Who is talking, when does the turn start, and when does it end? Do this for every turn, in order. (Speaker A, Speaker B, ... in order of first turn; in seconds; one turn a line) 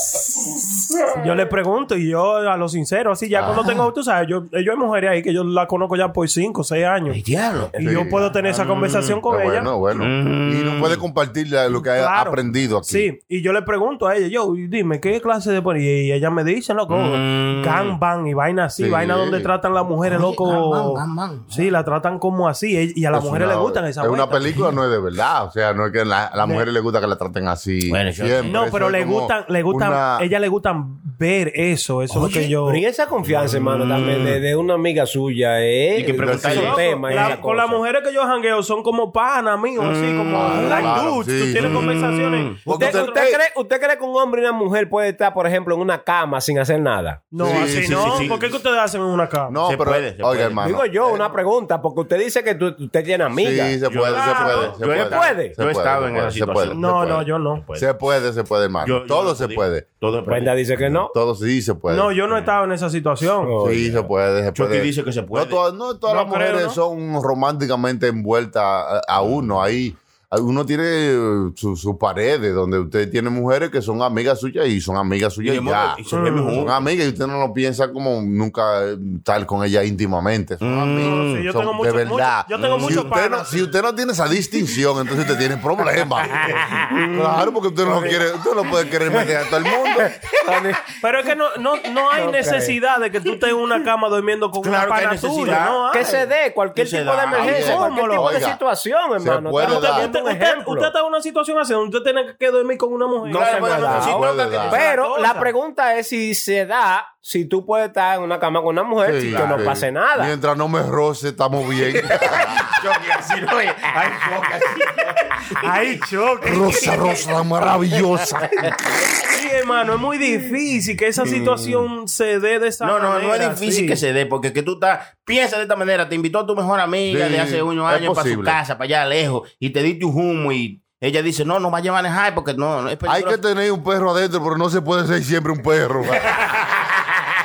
Speaker A: 1.1-7.2
Speaker B: 7.1-7.7
Speaker C: 7.8-8.3
Speaker A: 7.8-9.7
Speaker B: 8.4-9.2
Speaker C: 9.2-13.1
Speaker B: 9.9-11.0
Speaker A: 11.7-24.6
Speaker B: 16.9-18.0
Speaker C: 18.8-19.5
Speaker B: 20.0-21.7
Speaker C: 23.1-30.2
Speaker A: 26.4-26.7
Speaker B: 27.9-28.6
Speaker A: 28.4-32.8
Speaker B: 32.1-32.5
Speaker D: 32.6-37.8
Speaker B: 33.2-34.4
Speaker B: 35.9-37.4
Speaker C: 36.1-36.8
Speaker A: 36.5-43.4
Speaker B: 39.8-41.0
Speaker C: 40.3-41.9
Speaker B: 41.5-42.6
Speaker C: 42.6-43.3
Speaker D: 42.7-47.3
Speaker A: 47.3-49.6
Speaker C: 47.4-48.4
Speaker B: 47.4-48.5
Speaker C: 49.5-51.3
Speaker B: 49.6-50.6
Speaker D: 50.6-53.8
Speaker C: 53.4-57.2
Speaker B: 53.9-57.9
Speaker A: 54.1-54.7
Speaker D: 54.9-55.5
Speaker A: 56.7-57.6
Speaker C: 57.7-59.8
Speaker B: 58.8-60.9
Speaker D: 60.3-61.1
Speaker C: 60.9-62.1
Speaker A: 61.9-63.5
Speaker D: 63.4-64.0
Speaker C: 63.6-86.4
Speaker B: 64.5-65.6
Speaker A: 66.1-66.8
Speaker B: 69.2-69.5
Speaker B: 75.4-76.9
Speaker A: 76.1-76.6
Speaker B: 80.6-81.5
Speaker A: 81.0-83.7
Speaker B: 82.5-83.1
Speaker B: 86.2-87.0
Speaker C: 87.1-90.1
Speaker D: 87.8-88.2
Speaker D: 90.3-90.9
Speaker A: 91.0-96.2
Speaker D: 92.1-92.8
Speaker B: 94.6-97.7
Speaker D: 95.9-100.9
Speaker C: 97.3-98.6
Speaker A: 97.4-98.5
Speaker C: 99.2-100.1
Speaker A: 99.6-105.5
Speaker B: 103.2-104.8
Speaker D: 103.3-110.3
Speaker C: 103.9-104.8
Speaker C: 109.0-112.7
Speaker B: 109.2-109.7
Speaker B: 111.9-116.0
Speaker A: 115.6-117.0
Speaker C: 116.4-118.7
Speaker A: 119.2-124.0
Speaker B: 121.3-121.7
Speaker B: 122.8-133.4
Speaker C: 127.1-128.6
Speaker C: 133.1-136.4